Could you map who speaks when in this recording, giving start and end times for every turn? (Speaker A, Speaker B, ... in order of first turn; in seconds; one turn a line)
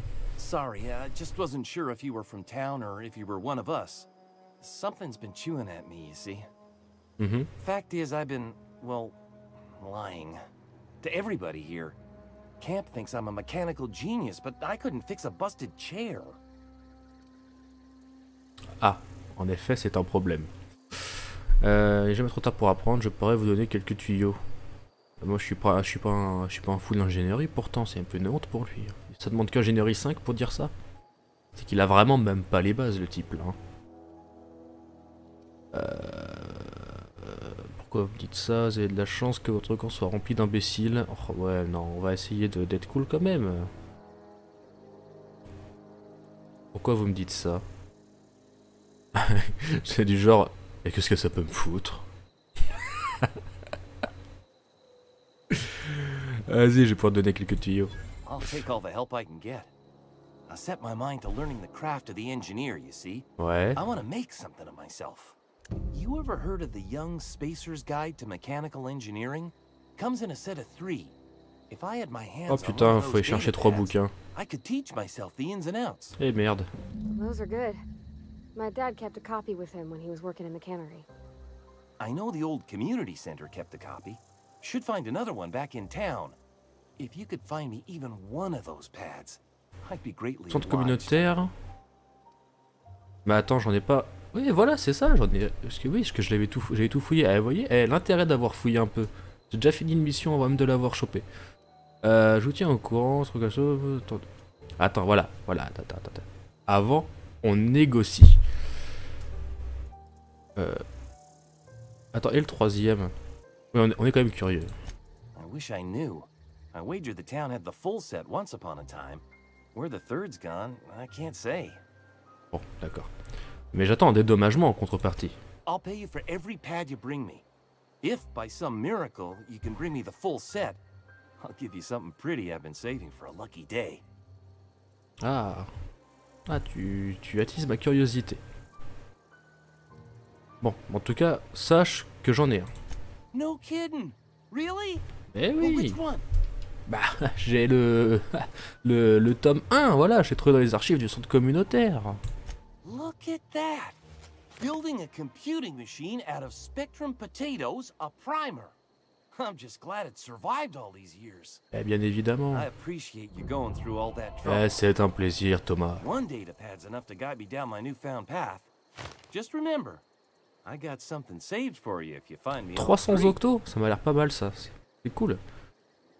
Speaker A: 0.4-4.1
Speaker A: 4.6-6.5
Speaker B: 7.2-7.5
Speaker A: 7.6-10.4
Speaker A: 11.0-12.0
Speaker A: 12.6-16.4
Speaker B: 18.8-24.4
Speaker B: 25.2-30.7
Speaker B: 31.5-33.6
Speaker B: 35.7-43.7
Speaker B: 46.7-47.6
Speaker B: 49.1-52.0
Speaker B: 55.5-57.9
Speaker A: 58.2-59.7
Speaker A: 60.5-65.4
Speaker B: 63.4-63.8
Speaker A: 65.9-71.1
Speaker A: 71.7-76.2
Speaker B: 72.5-74.1
Speaker B: 76.2-76.7
Speaker C: 77.1-77.8
Speaker C: 78.5-81.0
Speaker A: 82.0-86.3
Speaker A: 87.0-91.3
Speaker B: 90.5-91.5
Speaker B: 93.2-101.2
Speaker B: 102.0-104.2
Speaker B: 104.8-108.4
Speaker B: 110.6-110.8
Speaker B: 112.1-113.1
Speaker B: 113.7-114.7
Speaker A: 115.3-121.8
Speaker B: 122.5-123.1
Speaker B: 123.7-125.4
Speaker A: 125.7-127.4
Speaker A: 128.0-130.8
Speaker A: 131.4-134.0
Speaker B: 135.2-135.7
Speaker B: 136.5-138.4
Speaker B: 140.6-142.7
Speaker A: 143.3-145.0
Speaker B: 145.3-146.0
Speaker A: 145.6-146.2
Speaker B: 146.9-152.2
Speaker A: 152.8-154.0
Speaker A: 154.6-158.7
Speaker A: 159.3-161.6
Speaker B: 161.7-162.7
Speaker A: 162.5-164.7
Speaker B: 164.4-166.0
Speaker A: 166.0-168.7
Speaker A: 169.3-170.0
Speaker A: 170.6-173.4
Speaker B: 172.8-175.4